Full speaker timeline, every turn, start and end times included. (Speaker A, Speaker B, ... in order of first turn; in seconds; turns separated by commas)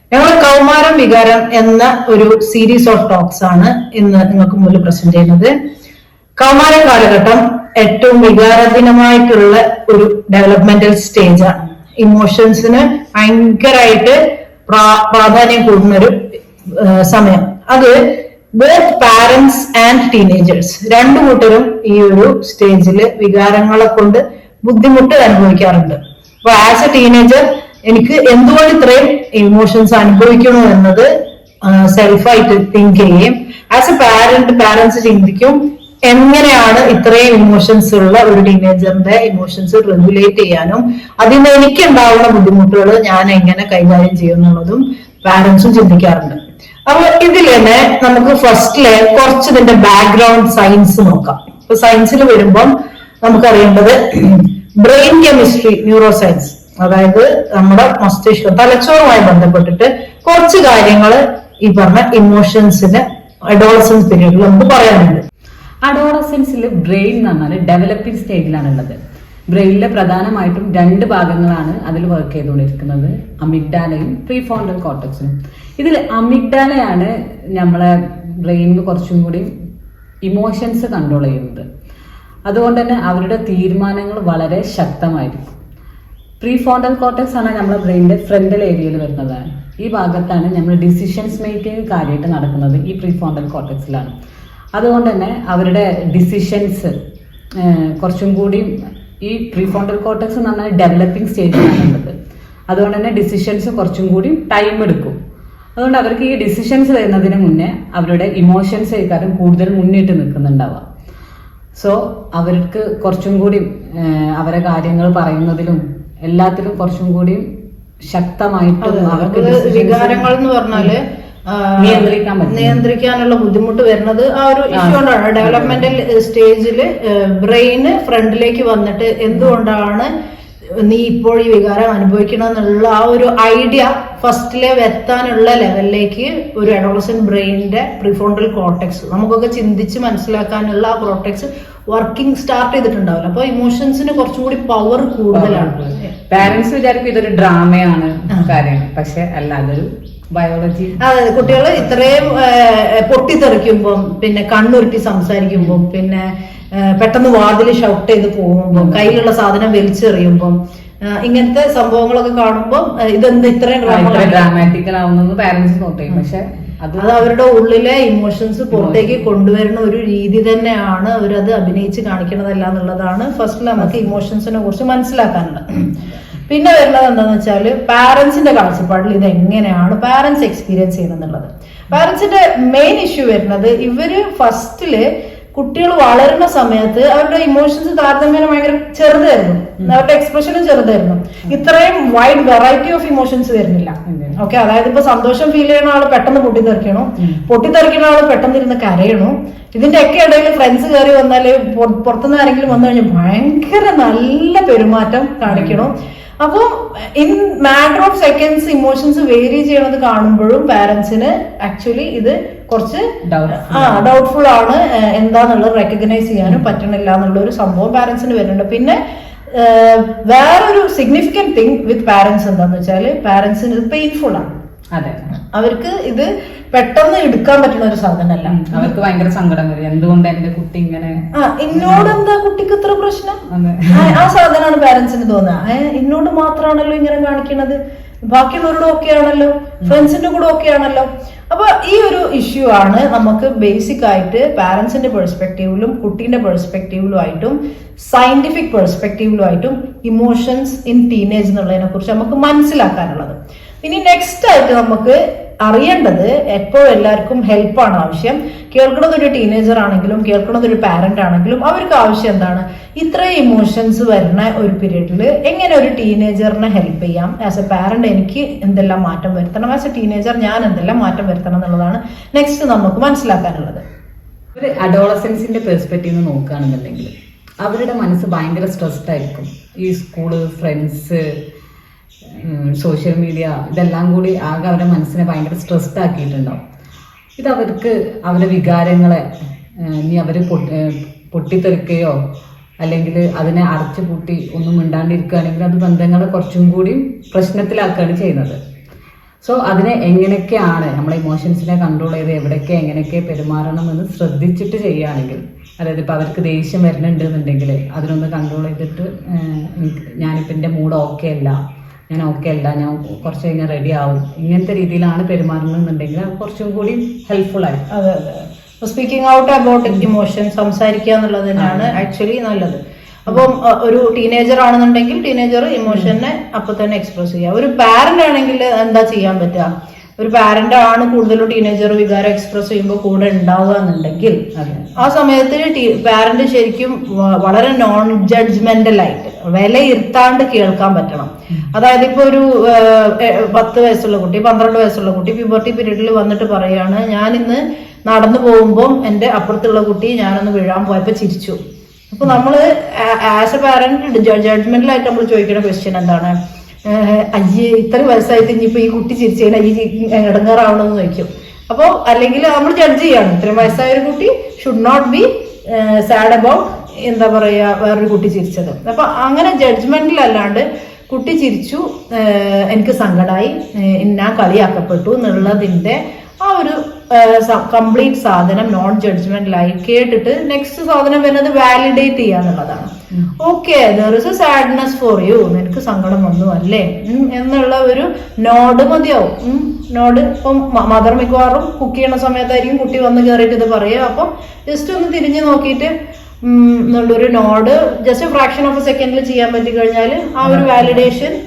Speaker A: 0.1-5.5, Speaker A: 6.4-16.2, Speaker A: 16.7-18.0, Speaker A: 18.6-31.1, Speaker A: 31.6-52.7, Speaker A: 53.2-65.2, Speaker B: 65.8-69.0, Speaker B: 69.5-79.5, Speaker B: 80.3-81.7, Speaker B: 82.5-85.6, Speaker B: 86.4-94.1, Speaker B: 94.8-96.9, Speaker B: 97.6-102.1, Speaker B: 102.7-105.2, Speaker B: 105.8-110.8, Speaker B: 111.8-117.4, Speaker B: 118.1-120.9, Speaker A: 118.8-130.1, Speaker B: 121.8-122.8, Speaker B: 124.7-125.9, Speaker A: 130.8-146.1, Speaker B: 145.3-152.2, Speaker A: 151.0-164.6, Speaker B: 158.7-159.2, Speaker B: 163.8-167.3, Speaker A: 167.0-219.0, Speaker B: 168.7-169.3, Speaker B: 173.8-174.1, Speaker B: 194.1-194.4, Speaker B: 205.5-205.9, Speaker B: 213.2-214.1, Speaker A: 219.5-224.6, Speaker B: 224.9-225.3, Speaker A: 225.3-228.9, Speaker B: 228.5-231.2, Speaker A: 231.3-273.8, Speaker B: 231.7-232.2, Speaker B: 233.5-234.2, Speaker B: 274.6-277.1, Speaker B: 277.6-281.2, Speaker B: 282.3-286.6, Speaker B: 287.4-289.2, Speaker B: 289.8-292.2, Speaker B: 292.8-298.6, Speaker B: 299.4-311.6, Speaker B: 312.1-317.9, Speaker A: 317.9-351.6, Speaker B: 321.6-322.0, Speaker B: 334.6-334.9, Speaker A: 352.1-356.4, Speaker A: 356.9-395.9, Speaker A: 396.4-401.4, Speaker B: 400.4-401.1